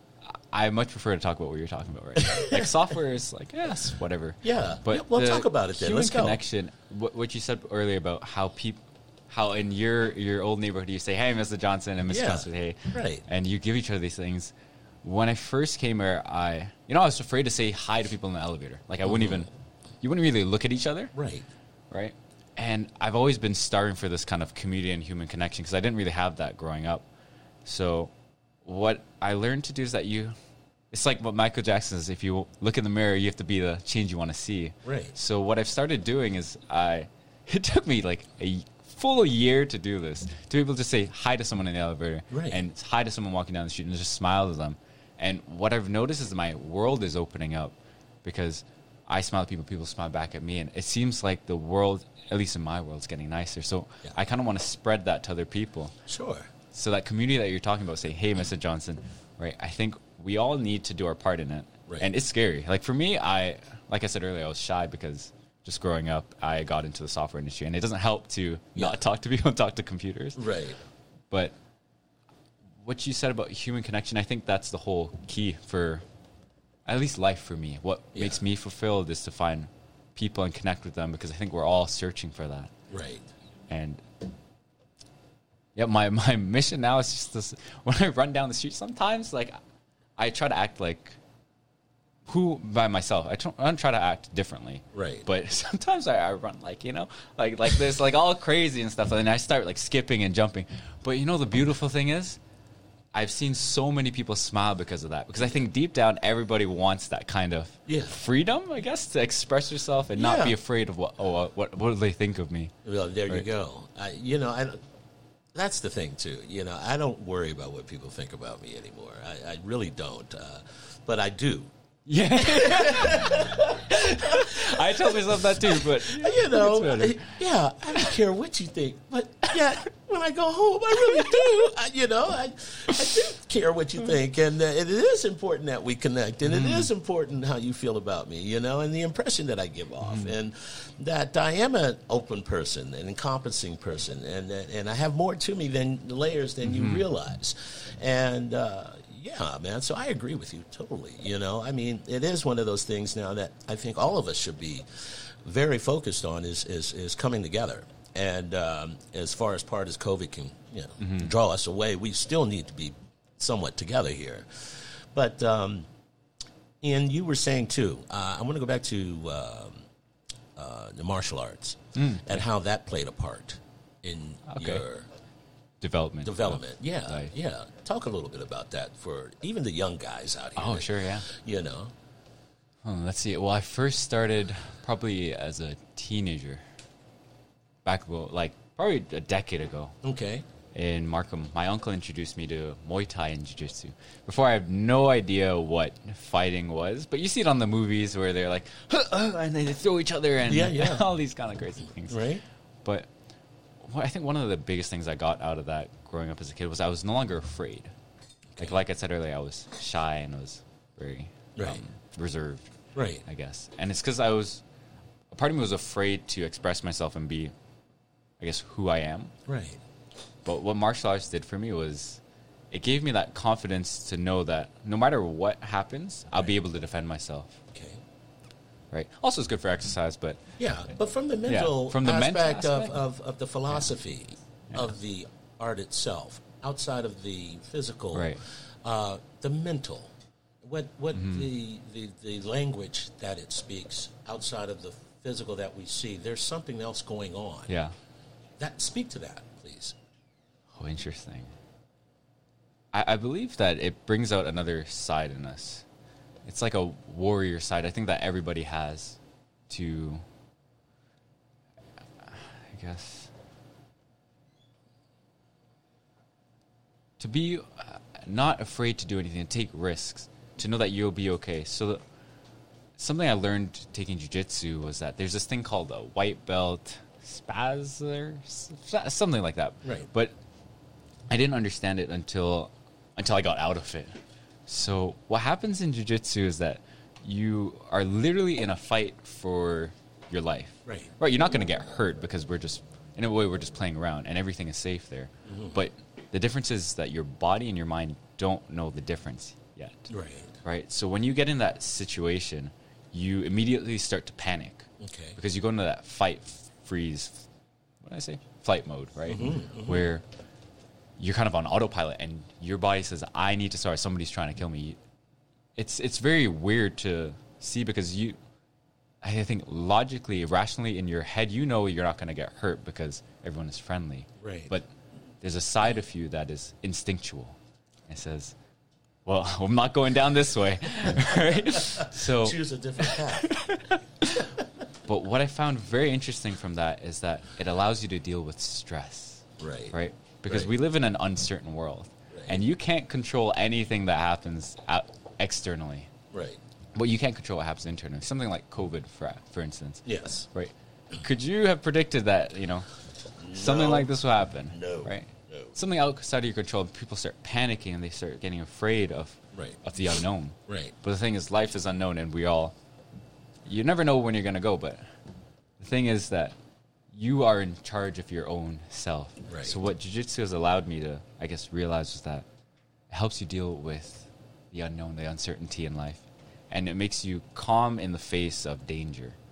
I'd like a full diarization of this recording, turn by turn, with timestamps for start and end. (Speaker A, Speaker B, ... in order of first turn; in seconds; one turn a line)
Speaker A: 0.5-19.5
Speaker B: 2.2-2.7
Speaker B: 4.4-6.4
Speaker B: 12.1-13.2
Speaker A: 20.0-21.1
Speaker B: 21.1-21.5
Speaker A: 21.9-27.1
Speaker A: 27.6-28.1
Speaker A: 28.6-30.3
Speaker A: 30.9-55.9
Speaker B: 34.9-35.1
Speaker B: 42.3-42.6
Speaker B: 56.1-56.5
Speaker A: 56.7-70.4
Speaker B: 70.4-70.8
Speaker A: 72.8-76.0
Speaker A: 76.9-82.7
Speaker B: 78.2-78.4
Speaker B: 82.9-83.3
Speaker A: 83.7-84.0
Speaker A: 85.8-89.5
Speaker A: 90.2-91.2
Speaker A: 92.3-102.4
Speaker B: 94.9-95.3
Speaker A: 103.1-112.7
Speaker B: 107.9-108.2
Speaker B: 110.2-110.6
Speaker B: 112.8-114.8
Speaker B: 115.5-121.7
Speaker A: 122.1-127.4
Speaker B: 122.4-165.9
Speaker A: 136.5-136.9
Speaker A: 146.6-147.0
Speaker A: 161.0-161.3
Speaker B: 166.8-169.8
Speaker B: 170.6-175.1
Speaker A: 172.0-172.3
Speaker A: 174.5-174.8
Speaker A: 175.8-177.3
Speaker B: 176.2-181.9
Speaker A: 180.6-181.3
Speaker A: 182.8-186.6
Speaker A: 187.8-189.9
Speaker B: 190.0-190.4
Speaker A: 190.7-202.2
Speaker B: 200.5-201.0
Speaker B: 202.1-202.4
Speaker A: 203.8-207.9
Speaker A: 208.6-212.7
Speaker B: 211.6-211.8
Speaker B: 212.9-213.2
Speaker A: 213.2-214.6
Speaker A: 215.3-217.5
Speaker A: 218.4-219.3
Speaker B: 219.5-219.8
Speaker A: 220.4-227.6
Speaker B: 227.7-228.0
Speaker A: 228.9-230.4
Speaker B: 230.6-240.1
Speaker A: 231.5-233.0
Speaker A: 238.1-238.4
Speaker B: 240.6-247.7
Speaker A: 241.1-241.5
Speaker A: 247.7-247.9
Speaker B: 248.6-249.9
Speaker A: 250.8-251.5
Speaker A: 252.9-255.8
Speaker A: 256.4-259.2
Speaker A: 259.7-260.2
Speaker A: 262.2-263.3
Speaker A: 267.2-272.0
Speaker A: 273.0-280.3
Speaker B: 279.8-280.1
Speaker A: 281.3-284.1
Speaker A: 284.7-300.1
Speaker B: 290.9-291.1
Speaker B: 295.5-295.8
Speaker B: 300.1-300.6
Speaker A: 300.6-307.5
Speaker B: 305.0-305.4
Speaker A: 308.0-310.2
Speaker B: 309.3-310.1
Speaker A: 311.2-315.0
Speaker A: 315.8-318.4
Speaker A: 319.2-324.9
Speaker B: 324.4-324.8
Speaker A: 325.4-327.6
Speaker A: 328.1-328.6
Speaker A: 329.3-334.5
Speaker B: 332.0-333.6
Speaker A: 335.1-346.1
Speaker B: 339.6-340.0
Speaker B: 342.3-342.6
Speaker B: 346.3-346.6
Speaker A: 346.9-352.9
Speaker B: 350.1-350.5
Speaker B: 353.4-354.2
Speaker A: 353.5-362.7
Speaker B: 354.7-355.8
Speaker B: 359.5-359.8
Speaker B: 360.7-360.9
Speaker A: 363.7-365.0
Speaker A: 365.8-366.6
Speaker A: 367.1-372.4
Speaker B: 369.5-369.8
Speaker A: 373.1-379.4